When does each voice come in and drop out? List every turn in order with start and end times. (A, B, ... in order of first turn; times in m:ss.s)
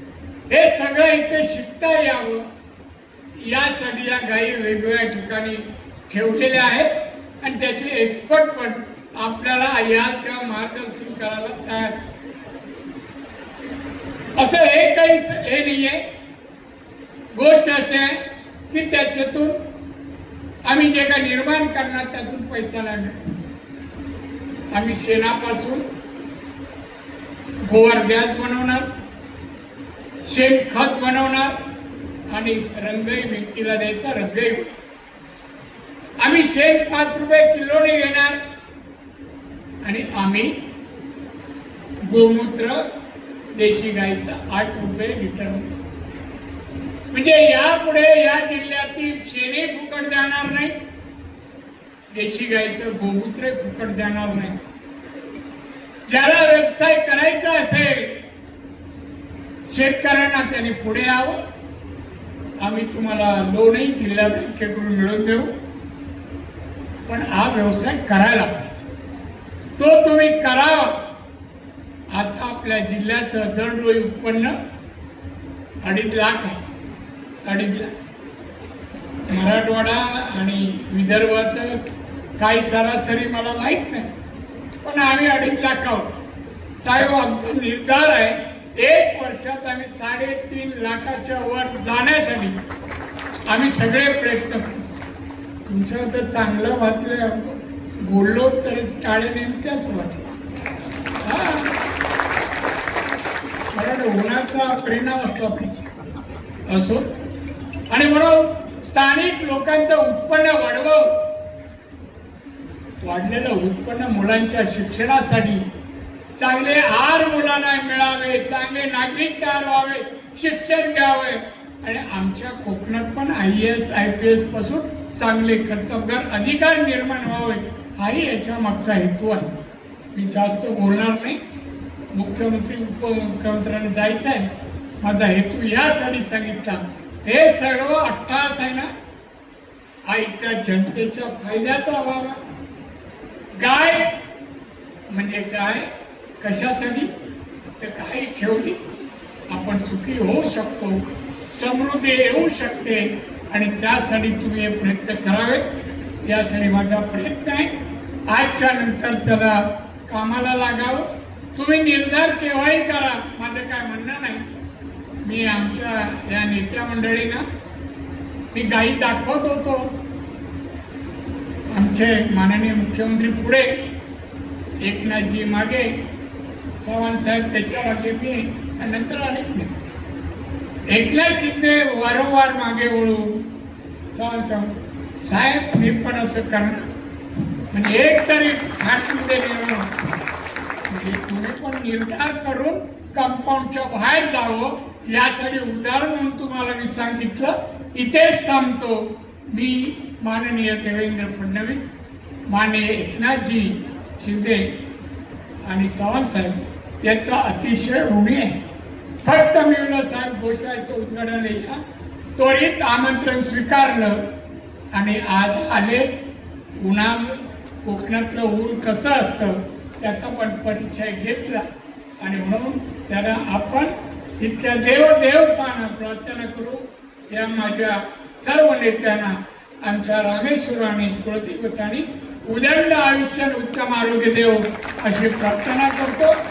0:00.5-0:02.5 A
0:03.4-0:12.0 A
0:14.4-0:16.1 A
0:17.3-0:19.6 A
0:20.6-0:23.2 A
0:24.7-0:25.8 A
0:27.7-0:28.9 A
0:30.2-0:31.6 A
0:32.3-0:34.7 A
0:36.2-0:38.4 A
0:39.8-0:40.6 A
0:42.0-0:42.8 A
0:43.5-0:45.7 A
0:47.1-0:50.8 A
0:52.1-0:54.6 A
0:56.1-0:58.2 A
0:59.7-1:01.4 A
1:02.6-1:05.5 A
1:07.1-1:08.7 A
1:09.8-1:11.0 A
1:12.1-1:14.6 A
1:15.8-1:16.6 A
1:17.4-1:17.9 A
1:19.3-1:21.8 A
1:22.4-1:24.1 A
1:24.8-1:26.1 A
1:26.8-1:32.6 A
1:33.5-1:34.9 A
1:35.7-1:40.2 A
1:41.2-1:41.7 A
1:43.7-1:45.8 A
1:46.7-1:47.1 A
1:47.9-1:51.1 A
1:53.0-1:55.7 A
1:56.4-2:09.6 A
2:10.1-2:11.4 A
2:12.1-2:18.9 A
2:20.1-2:22.4 A
2:23.6-2:24.2 A
2:25.1-2:27.1 A
2:27.8-2:28.8 A
2:29.5-2:31.0 A
2:31.5-2:35.7 A
2:36.2-2:37.8 A
2:38.3-2:44.5 A
2:45.2-2:47.4 A
2:48.5-2:50.0 A
2:51.7-2:53.8 A
2:54.8-2:56.0 A
2:56.8-2:59.8 A
3:00.9-3:03.5 A
3:04.1-3:06.9 A
3:07.7-3:09.9 A
3:10.9-3:21.9 A
3:22.5-3:24.7 A
3:25.6-3:28.6 A
3:29.2-3:31.8 A
3:32.4-3:34.2 A
3:34.9-3:36.2 A
3:36.8-3:41.7 A
3:42.2-3:56.4 A